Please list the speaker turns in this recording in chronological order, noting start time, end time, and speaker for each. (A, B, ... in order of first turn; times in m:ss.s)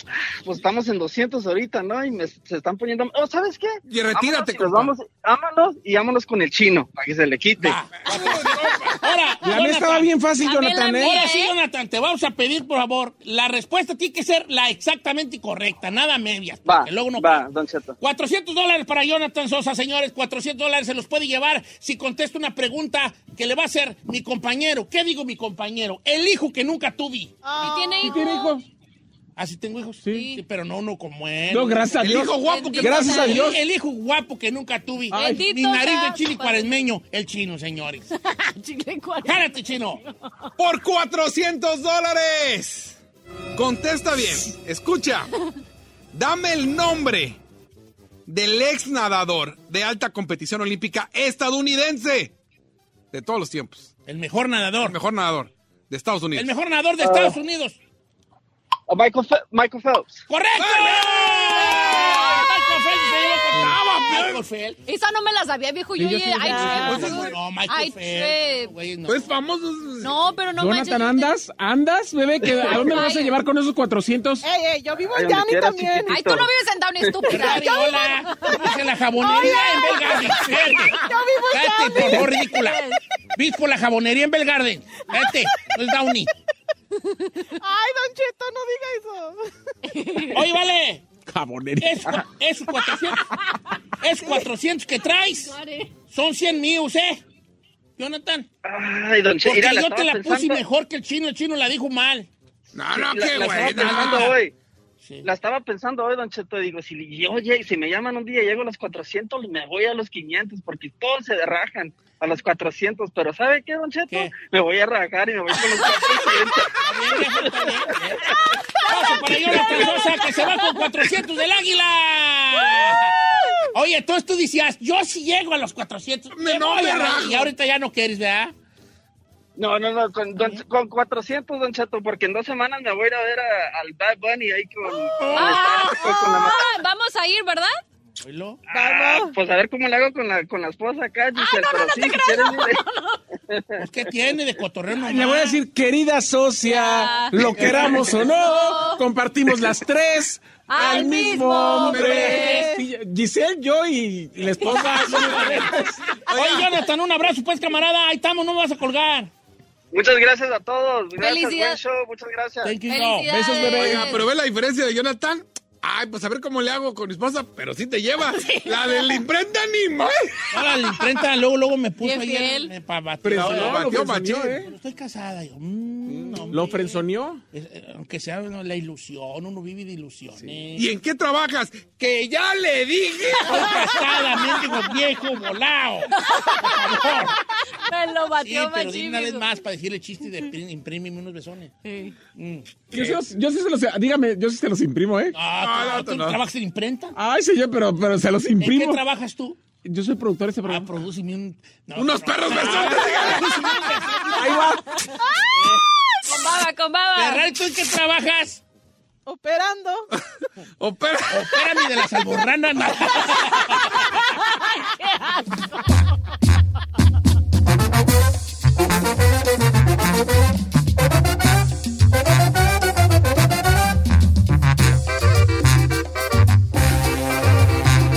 0:00.4-0:07.8 A
0:03.8-0:04.9 B
0:07.6-0:10.1 C
0:08.0-0:09.0 B
0:09.4-0:11.2 D
0:10.4-0:11.5 E
0:11.0-0:17.4 C
0:16.6-0:18.0 A
0:18.0-0:27.3 C
0:27.4-0:28.2 F
0:27.6-0:28.6 E
0:28.0-0:28.6 D
0:29.4-0:38.1 C
0:30.1-0:30.4 E
0:31.5-0:33.6 D
0:32.0-0:33.3 B
0:32.4-0:33.5 E
0:35.1-0:35.4 D
0:35.1-0:36.8 E
0:38.2-0:40.5 E
0:39.2-0:40.0 C
0:40.6-0:43.0 B
0:43.5-0:45.3 B
0:46.1-0:47.4 B
0:48.3-0:52.3 B
0:53.1-0:53.9 B
0:54.0-0:55.0 C
0:54.8-0:56.5 B
0:56.3-0:57.8 C
0:57.0-0:57.4 A
0:58.9-1:00.2 A
1:00.3-1:04.8 C
1:00.6-1:02.4 B
1:01.7-1:02.4 E
1:03.5-1:04.4 B
1:04.8-1:08.7 E
1:06.0-1:07.0 D
1:06.4-1:07.1 F
1:06.7-1:09.3 C
1:06.9-1:07.3 B
1:09.0-1:10.1 B
1:10.0-1:11.3 E
1:10.6-1:14.4 D
1:12.6-1:13.4 E
1:14.4-1:16.2 F
1:15.0-1:16.5 A
1:16.1-1:18.3 E
1:17.0-1:17.4 A
1:17.3-1:21.0 C
1:19.2-1:22.7 F
1:19.4-1:20.1 E
1:21.5-1:22.8 C
1:23.4-1:26.3 C
1:27.5-1:30.3 F
1:29.9-1:30.3 E
1:30.3-1:31.0 C
1:31.3-1:32.1 D
1:31.8-1:33.4 C
1:34.0-1:35.5 C
1:35.4-1:35.9 E
1:36.1-1:37.2 C
1:38.0-1:38.5 C
1:38.6-1:40.6 A
1:39.4-1:42.3 C
1:42.7-1:44.4 B
1:42.9-1:44.5 A
1:43.8-1:44.3 C
1:45.0-1:45.3 C
1:45.2-1:56.8 A
1:54.1-1:54.3 C
1:56.8-2:03.1 C
2:03.7-2:08.5 C
2:06.3-2:07.5 B
2:09.6-2:16.8 A
2:10.4-2:10.6 C
2:15.2-2:15.7 C
2:15.3-2:17.7 E
2:18.2-2:18.6 C
2:18.7-2:22.8 A
2:18.7-2:19.3 F
2:21.4-2:23.2 E
2:23.5-2:23.8 A
2:23.8-2:25.6 C
2:25.0-2:36.5 D
2:26.6-2:29.0 E
2:27.6-2:28.0 C
2:30.7-2:32.7 E
2:31.7-2:32.7 C
2:34.6-2:35.8 E
2:34.6-2:35.8 C
2:36.3-2:39.3 C
2:39.9-2:42.7 A
2:41.2-2:41.8 E
2:42.6-2:43.5 C
2:42.9-2:44.3 E
2:43.3-2:44.1 D
2:43.8-2:50.4 B
2:50.5-3:00.9 C
2:52.0-2:52.7 E
2:53.2-2:54.7 D
2:53.3-2:54.6 B
2:56.5-2:57.4 D
3:00.7-3:03.7 B
3:03.4-3:07.4 C
3:03.5-3:04.4 E
3:06.2-3:07.0 E
3:07.7-3:09.6 E
3:08.4-3:11.7 C
3:11.8-3:12.2 E
3:12.3-3:12.7 C
3:12.9-3:15.4 D
3:15.3-3:17.1 C
3:15.6-3:16.4 B
3:17.1-3:19.0 D
3:18.6-3:19.6 C
3:19.8-3:20.9 D
3:20.6-3:24.7 C
3:22.0-3:23.5 B
3:24.3-3:25.1 D
3:25.5-3:25.8 C
3:26.2-3:27.5 E
3:27.1-3:28.6 C
3:29.2-3:30.1 F
3:30.8-3:31.4 B
3:31.3-3:34.1 C